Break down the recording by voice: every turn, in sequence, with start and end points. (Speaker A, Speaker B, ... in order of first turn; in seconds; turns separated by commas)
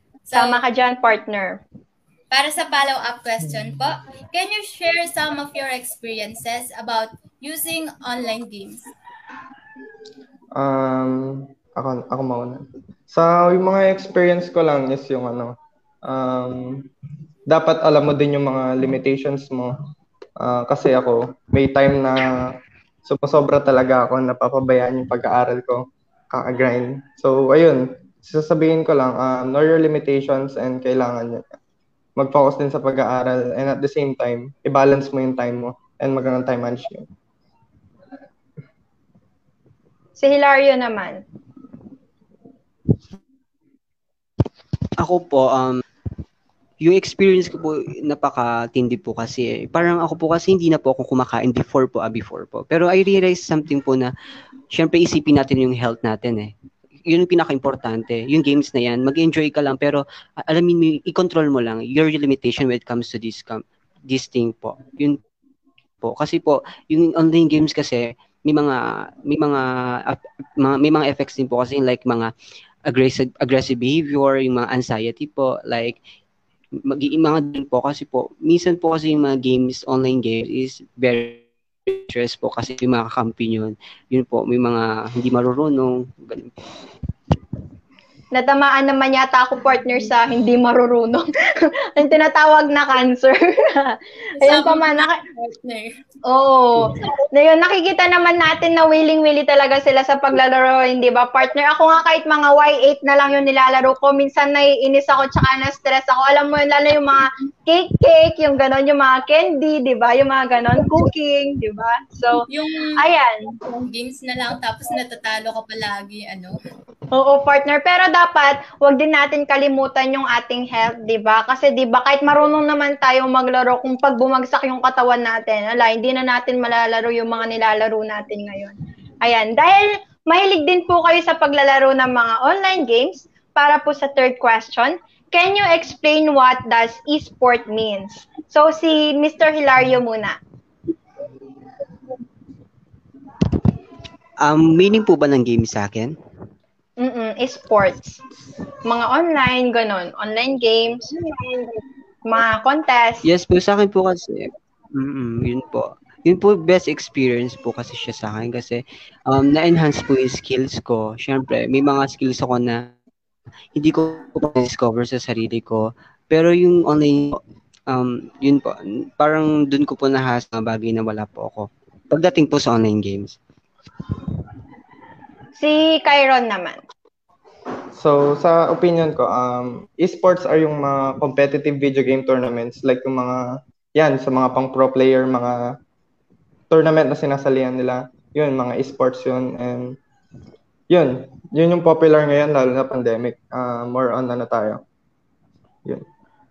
Speaker A: 0.3-0.6, Speaker B: 0.3-1.6, Speaker A: 2.3-8.9, Speaker C: 10.6-15.5, Speaker C: 16.0-16.9, Speaker C: 17.5-19.7, Speaker C: 20.4-22.4, Speaker C: 23.0-31.5, Speaker C: 32.2-37.1, Speaker B: 40.2-41.2, Speaker D: 45.0-45.8, Speaker D: 46.8-54.1, Speaker D: 54.7-56.5, Speaker D: 57.1-65.2, Speaker D: 66.0-72.3, Speaker D: 72.9-76.0, Speaker D: 76.9-86.5, Speaker B: 88.3-91.3, Speaker B: 91.8-95.1, Speaker A: 94.4-95.9, Speaker B: 96.3-112.5, Speaker A: 112.5-112.9, Speaker B: 113.0-113.5, Speaker A: 113.6-116.6, Speaker B: 117.1-140.4, Speaker D: 144.4-146.1, Speaker B: 147.0-148.2, Speaker B: 148.8-151.1, Speaker B: 152.3-153.2, Speaker D: 153.2-162.9, Speaker D: 163.8-173.3, Speaker B: 175.6-176.8, Speaker C: 177.9-183.4, Speaker C: 183.9-185.6, Speaker C: 186.7-189.9, Speaker C: 190.9-194.8